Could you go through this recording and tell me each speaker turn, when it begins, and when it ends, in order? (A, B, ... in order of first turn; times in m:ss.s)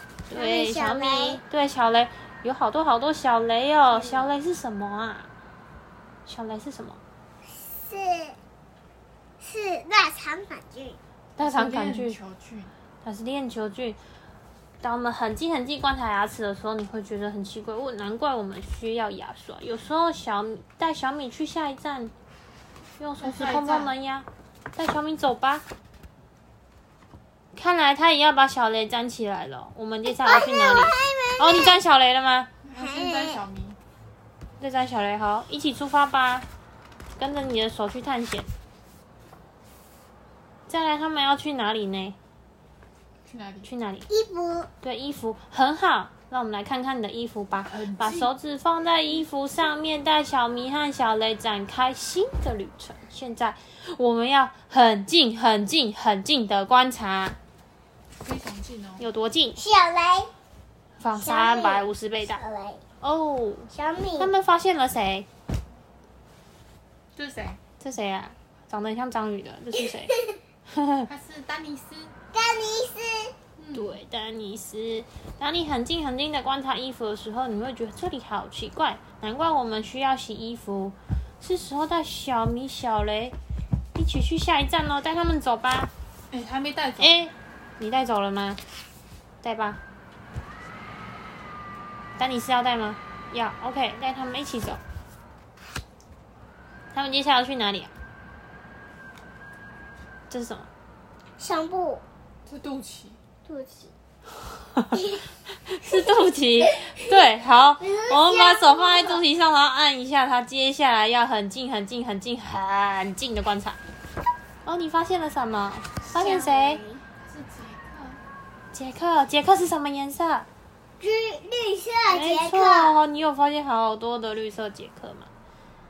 0:00.3-0:05.3 A
0:00.3-0:01.4 B
0:06.3-0:07.0 A
0:07.4-0:08.4 B
0:09.4-0:11.0 B
0:11.4-0:12.2 A
0:11.4-0:12.7 C
0:13.0-0:14.0 A
0:14.8-0:22.1 A
0:23.0-0:25.6 A
0:23.2-0:24.0 C
0:27.5-0:32.5 A
0:30.1-0:31.8 B
0:32.6-0:33.8 C
0:32.8-0:33.4 B
0:34.6-0:36.5 A
0:37.2-0:38.5 A
0:40.7-0:42.2 A
0:43.2-0:43.7 C
0:43.6-0:44.1 A
0:44.1-0:44.7 B
0:44.8-0:57.4 A
0:47.6-0:48.3 C
0:58.2-0:59.1 C
0:59.0-0:59.6 A
0:59.6-1:00.3 B
1:01.0-1:02.4 A
1:01.1-1:02.8 B
1:03.0-1:05.3 A
1:03.7-1:04.3 B
1:07.2-1:07.6 C
1:07.8-1:10.2 A
1:10.1-1:10.4 B
1:10.7-1:11.1 A
1:11.1-1:12.1 C
1:12.3-1:13.3 B
1:13.6-1:14.0 C
1:13.7-1:23.4 A
1:24.0-1:25.9 A
1:26.3-1:27.2 C
1:27.0-1:28.6 A
1:29.4-1:29.8 A
1:32.2-1:34.8 A
1:36.9-1:37.9 A
1:40.3-1:40.7 A
1:41.4-1:42.0 B
1:42.5-1:43.2 C
1:43.5-1:43.9 B
1:44.7-1:53.8 A
1:44.9-1:45.2 B
1:45.9-1:47.2 B
1:47.8-1:49.2 B
1:54.6-1:56.8 A
1:56.1-1:57.0 B
1:57.2-1:58.2 C
1:58.7-2:00.5 A
2:01.0-2:03.0 B
2:02.1-2:05.3 A